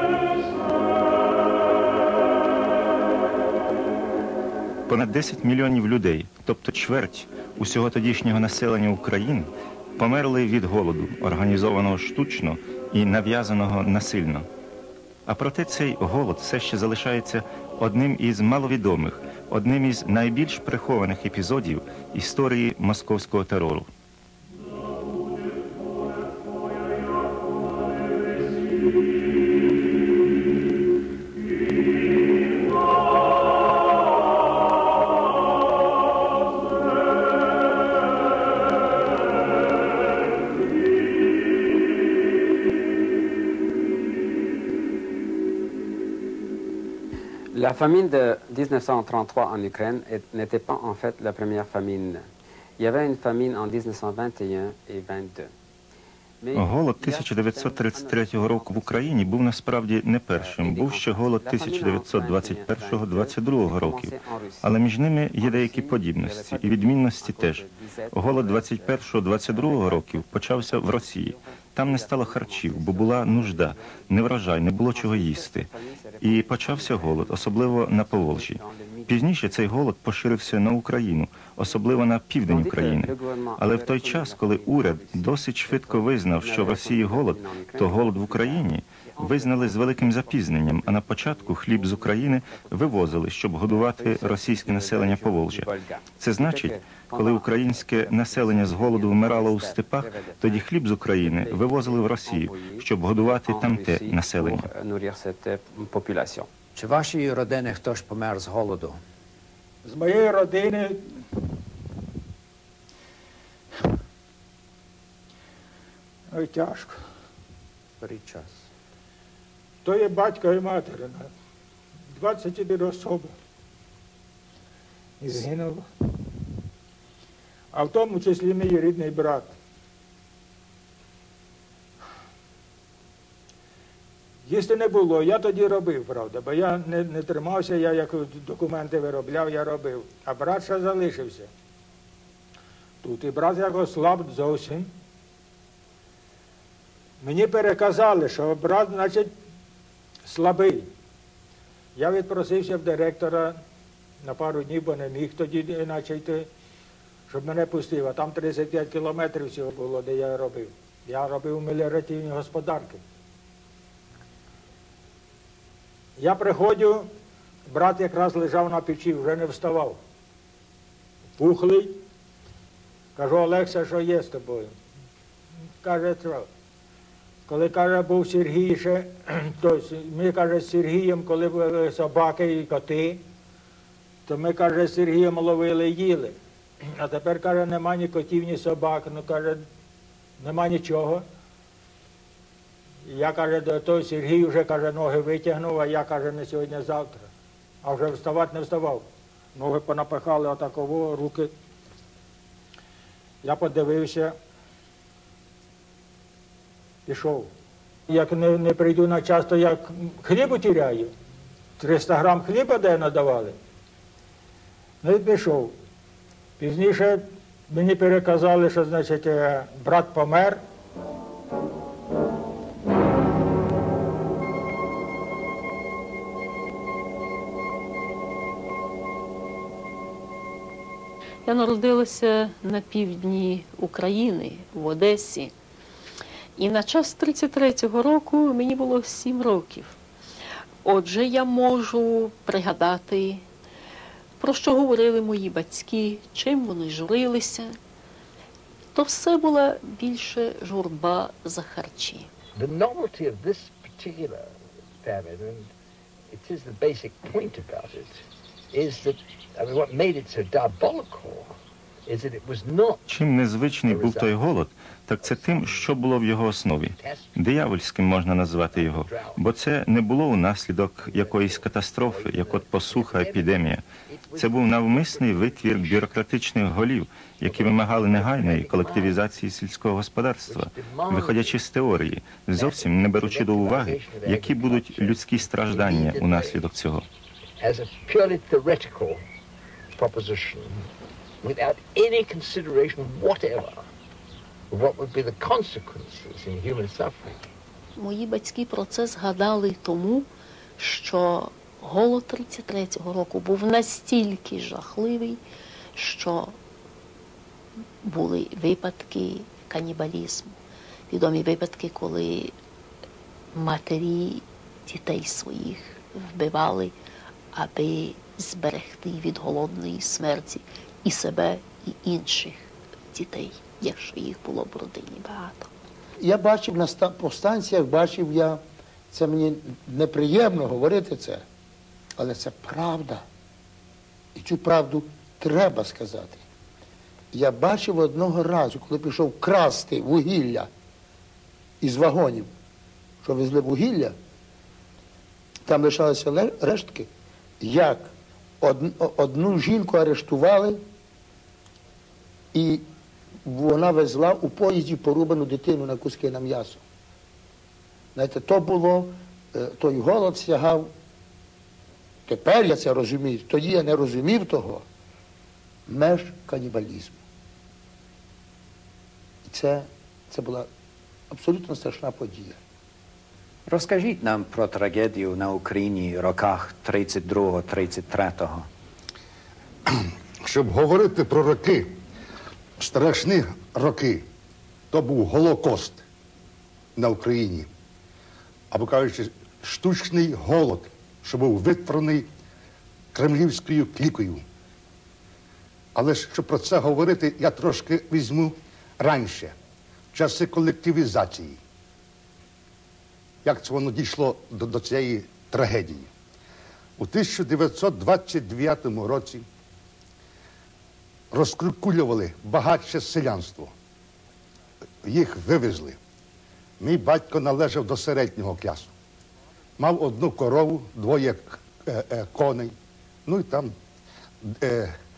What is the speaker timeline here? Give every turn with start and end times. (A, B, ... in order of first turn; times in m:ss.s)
0:04.9-0:14.5 A
0:15.3-0:23.9 A
0:47.5-0:52.3 B
0:52.8-0:55.5 B
0:56.4-0:59.5 B
0:56.5-1:44.7 A
1:00.3-1:04.8 B
1:05.3-1:19.8 B
1:21.5-1:46.5 B
1:46.8-1:49.0 C
1:49.8-1:51.1 D
1:56.3-1:57.0 D
1:58.0-1:58.3 C
1:59.8-2:01.3 D
2:02.2-2:03.3 D
2:05.2-2:05.9 D
2:07.7-2:09.5 D
2:14.5-2:21.5 D
2:23.0-2:24.9 D
2:27.2-2:29.3 D
2:30.2-2:30.9 D
2:32.0-2:33.6 D
2:34.2-2:36.5 D
2:37.3-2:43.0 D
2:46.2-2:47.1 D
2:47.7-2:50.0 D
2:51.4-2:52.0 D
2:53.2-2:54.8 D
2:55.8-2:56.5 D
2:57.5-3:03.2 D
3:04.3-3:06.4 D
3:07.0-3:09.6 D
3:10.4-3:11.2 D
3:13.1-3:17.3 D
3:17.8-3:21.5 D
3:23.4-3:24.4 D
3:27.1-3:27.5 D
3:28.1-3:31.1 D
3:31.8-3:33.6 D
3:35.0-3:35.8 D
3:36.6-3:40.6 D
3:51.5-3:55.5 E
3:56.6-4:00.0 E
4:00.8-4:03.4 E
4:04.4-4:07.8 E
4:09.0-4:12.3 E
4:12.6-4:15.7 F
4:16.3-4:18.2 F
4:18.7-4:21.5 F
4:22.1-4:23.0 F
4:23.1-4:47.1 A
4:23.9-4:24.6 F
4:25.2-4:26.0 F
4:27.0-4:27.4 F
4:28.7-4:29.4 F
4:31.0-4:36.2 F
4:37.4-4:39.2 F
4:40.5-4:41.6 F
4:42.5-4:46.7 F
4:47.6-4:49.2 F
4:49.9-4:50.9 F
4:51.4-4:53.9 F
4:54.7-4:57.4 F
4:58.0-5:00.3 E
5:00.8-5:05.4 E
5:06.0-5:06.6 E
5:08.0-5:10.6 E
5:11.1-5:12.5 E
5:13.5-5:16.9 E
5:17.5-5:25.7 E
5:26.2-5:31.4 G
5:32.2-5:33.2 G
5:34.4-5:36.4 G
5:37.3-5:40.7 G
5:41.8-5:42.5 G
5:43.2-5:44.2 G
5:45.7-5:47.1 G
5:47.6-5:50.8 G
5:52.5-5:52.9 G
5:53.4-5:56.8 G
5:58.2-6:00.9 G
6:02.3-6:04.8 G
6:05.9-6:07.2 G
6:09.4-6:10.7 G
6:11.3-6:12.6 G
6:13.7-6:18.7 C
6:19.9-6:22.0 H
6:22.8-6:24.2 H
6:24.9-6:26.0 H
6:27.0-6:27.7 H
6:28.7-6:32.3 H
6:33.1-6:34.4 H
6:36.0-6:39.6 H
6:40.1-6:41.6 H
6:43.4-6:46.1 H
6:47.0-6:49.4 H
6:51.3-6:53.7 H
6:55.0-6:56.0 H
6:56.8-6:58.9 H
6:59.8-7:02.7 H
7:03.3-7:03.7 H
7:04.4-7:05.0 H